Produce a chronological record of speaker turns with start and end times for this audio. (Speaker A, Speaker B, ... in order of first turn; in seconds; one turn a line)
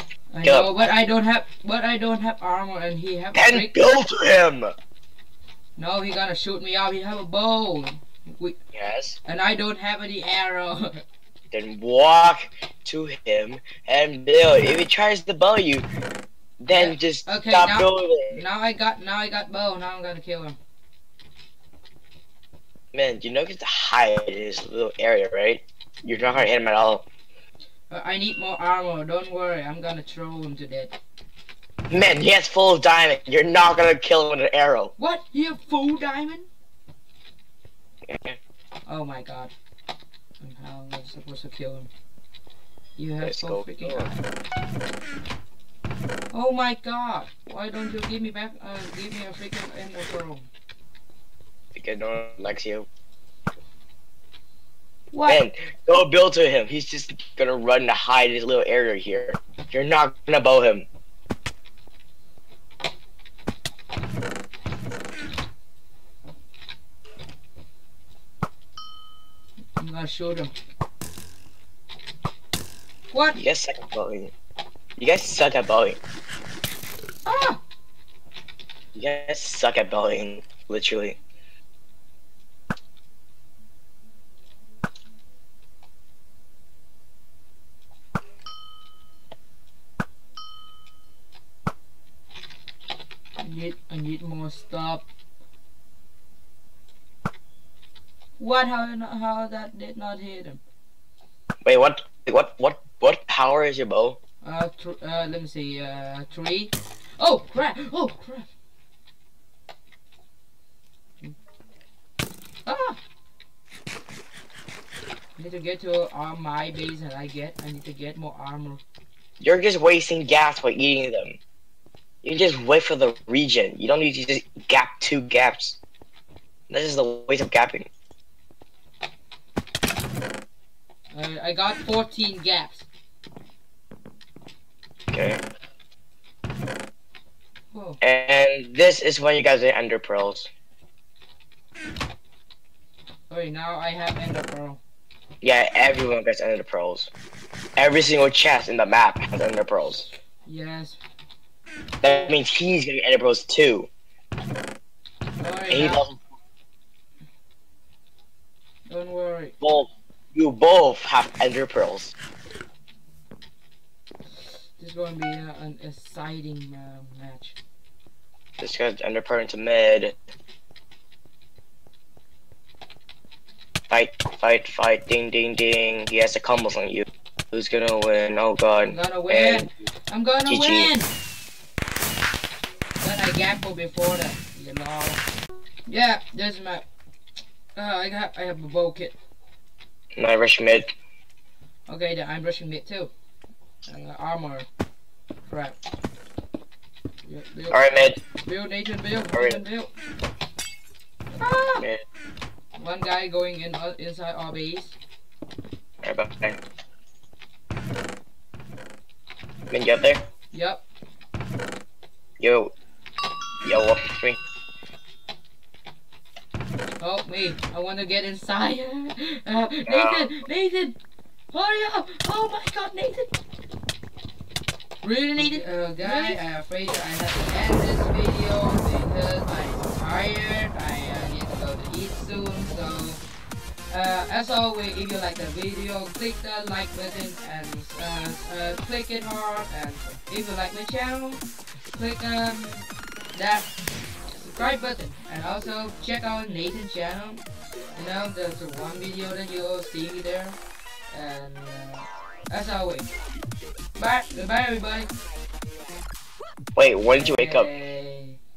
Speaker A: 0.3-4.0
Speaker B: 0.4-0.7
Speaker B: 3.3-4.7
Speaker A: 5.8-8.6
Speaker B: 8.7-9.2
Speaker A: 9.2-11.0
Speaker B: 11.5-15.9
Speaker B: 16.6-18.4
Speaker A: 16.7-20.6
Speaker B: 22.9-27.1
Speaker A: 27.9-30.9
Speaker B: 31.9-34.9
Speaker A: 35.0-36.5
Speaker B: 38.1-38.4
Speaker A: 38.9-39.5
Speaker A: 40.4-41.9
Speaker A: 43.0-44.2
Speaker B: 43.2-44.1
Speaker A: 46.3-50.5
Speaker B: 51.7-52.9
Speaker A: 55.1-55.4
Speaker B: 55.3-60.9
Speaker A: 69.8-70.5
Speaker A: 73.1-73.4
Speaker B: 73.3-74.3
Speaker B: 75.0-76.0
Speaker A: 77.2-77.6
Speaker B: 78.9-81.2
Speaker A: 93.4-95.0
Speaker A: 98.4-100.6
Speaker B: 101.6-104.2
Speaker A: 104.4-108.5
Speaker A: 112.7-113.0
Speaker A: 115.3-118.8
Speaker B: 119.4-121.4
Speaker B: 122.2-125.8
Speaker B: 126.7-127.9
Speaker A: 131.1-132.8
Speaker B: 135.1-135.4
Speaker A: 137.7-138.0
Speaker B: 138.0-140.5
Speaker A: 143.3-144.8
Speaker B: 145.4-147.1
Speaker B: 147.8-150.1
Speaker A: 150.4-151.0
Speaker B: 152.0-153.9
Speaker A: 155.4-156.0
Speaker B: 155.7-156.2
Speaker A: 158.9-159.5
Speaker B: 159.6-162.1
Speaker A: 164.8-167.6
Speaker B: 168.6-170.1
Speaker B: 173.9-179.7
Speaker A: 178.8-181.1
Speaker B: 180.4-180.9
Speaker A: 183.0-185.2
Speaker A: 185.9-186.8
Speaker A: 187.7-189.1
Speaker B: 190.2-190.9
Speaker A: 191.9-193.1
Speaker A: 193.8-194.7
Speaker A: 195.4-195.8
Speaker A: 197.2-199.9
Speaker B: 197.7-198.2
Speaker B: 199.3-199.6
Speaker A: 201.3-201.9
Speaker A: 202.8-204.9
Speaker B: 206.0-206.6
Speaker B: 209.7-210.2
Speaker A: 210.5-210.8
Speaker B: 212.4-212.7
Speaker B: 213.6-214.4
Speaker A: 217.0-221.0
Speaker B: 219.8-220.3
Speaker A: 221.5-223.3
Speaker A: 225.0-233.2
Speaker A: 233.9-241.4
Speaker A: 241.9-243.7
Speaker A: 244.3-247.4
Speaker A: 247.9-250.6
Speaker A: 251.1-253.1
Speaker A: 253.9-255.1
Speaker B: 256.8-257.7
Speaker A: 257.1-258.4